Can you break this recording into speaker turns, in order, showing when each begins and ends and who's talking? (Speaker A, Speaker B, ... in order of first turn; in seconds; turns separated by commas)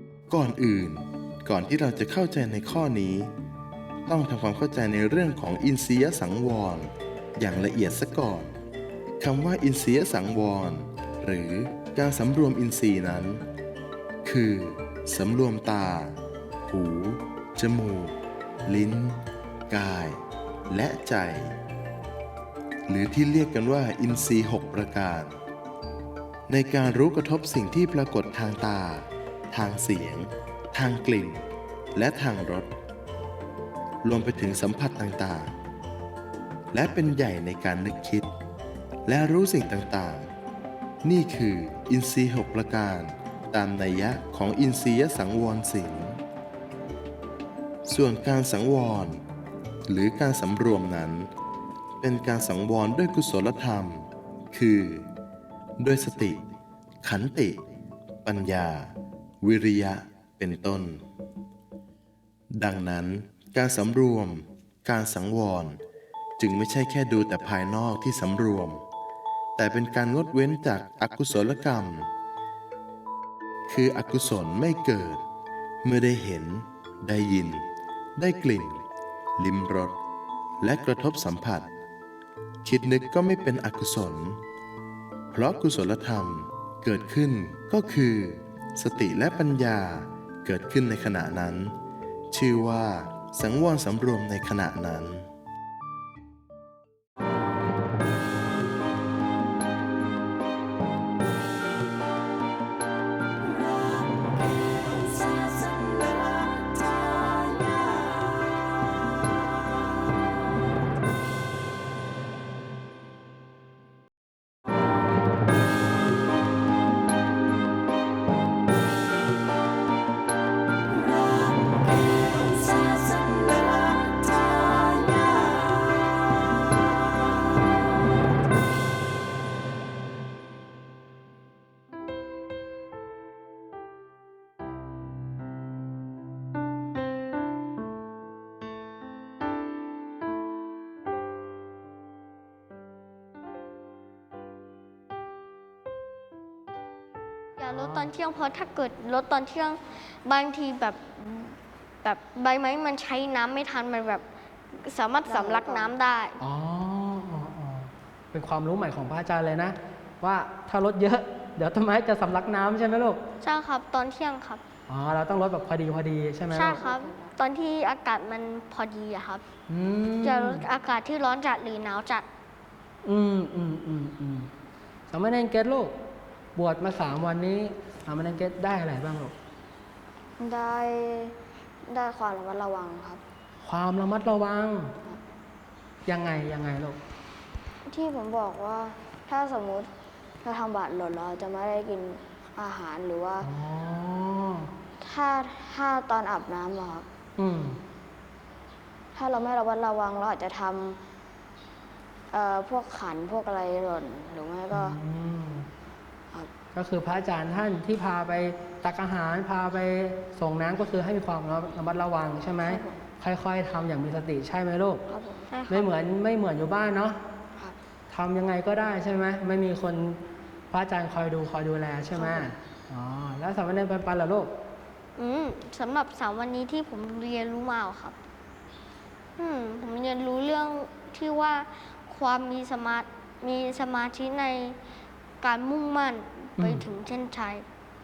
Speaker A: 0.3-3.3, Speaker A: 4.1-8.5, Speaker A: 9.2-13.4, Speaker A: 14.2-16.2, Speaker A: 16.7-21.6, Speaker A: 22.9-25.4, Speaker A: 26.5-31.4, Speaker A: 31.9-32.7, Speaker A: 34.0-35.5, Speaker A: 36.7-38.3, Speaker A: 39.1-40.3, Speaker A: 41.0-46.2, Speaker A: 47.9-49.2, Speaker A: 49.9-51.3, Speaker A: 52.0-55.1, Speaker A: 55.8-56.4, Speaker A: 57.0-57.6, Speaker A: 58.2-58.9, Speaker A: 59.4-61.0, Speaker A: 62.6-65.8, Speaker A: 66.4-68.8, Speaker A: 69.6-72.1, Speaker A: 73.7-75.2, Speaker A: 75.8-77.6, Speaker A: 78.2-78.8, Speaker A: 79.4-80.0, Speaker A: 80.6-81.7, Speaker A: 82.6-84.4, Speaker A: 85.3-91.8, Speaker A: 92.3-95.3, Speaker B: 147.6-154.2, Speaker B: 154.8-156.4, Speaker C: 155.2-155.9, Speaker D: 156.4-163.2, Speaker B: 163.4-164.6, Speaker D: 164.9-166.8, Speaker B: 166.5-169.4, Speaker C: 166.8-167.3, Speaker D: 169.7-170.6, Speaker B: 170.2-172.3, Speaker D: 173.0-174.5, Speaker D: 175.1-175.9, Speaker D: 176.6-179.3, Speaker C: 180.4-181.3, Speaker C: 181.9-183.2, Speaker D: 183.6-184.9, Speaker D: 186.1-187.0, Speaker C: 187.9-189.9, Speaker C: 190.4-193.5, Speaker D: 193.4-194.7, Speaker C: 195.0-197.1, Speaker D: 197.4-197.8, Speaker C: 199.2-201.0, Speaker C: 202.3-205.0, Speaker D: 204.7-205.7, Speaker D: 206.7-215.0, Speaker C: 212.6-213.0, Speaker C: 215.1-215.5, Speaker B: 215.5-215.9, Speaker D: 215.7-217.2, Speaker D: 218.1-224.5, Speaker C: 222.2-222.5, Speaker B: 225.2-228.2, Speaker B: 229.4-234.8, Speaker B: 235.4-237.7, Speaker D: 236.6-236.8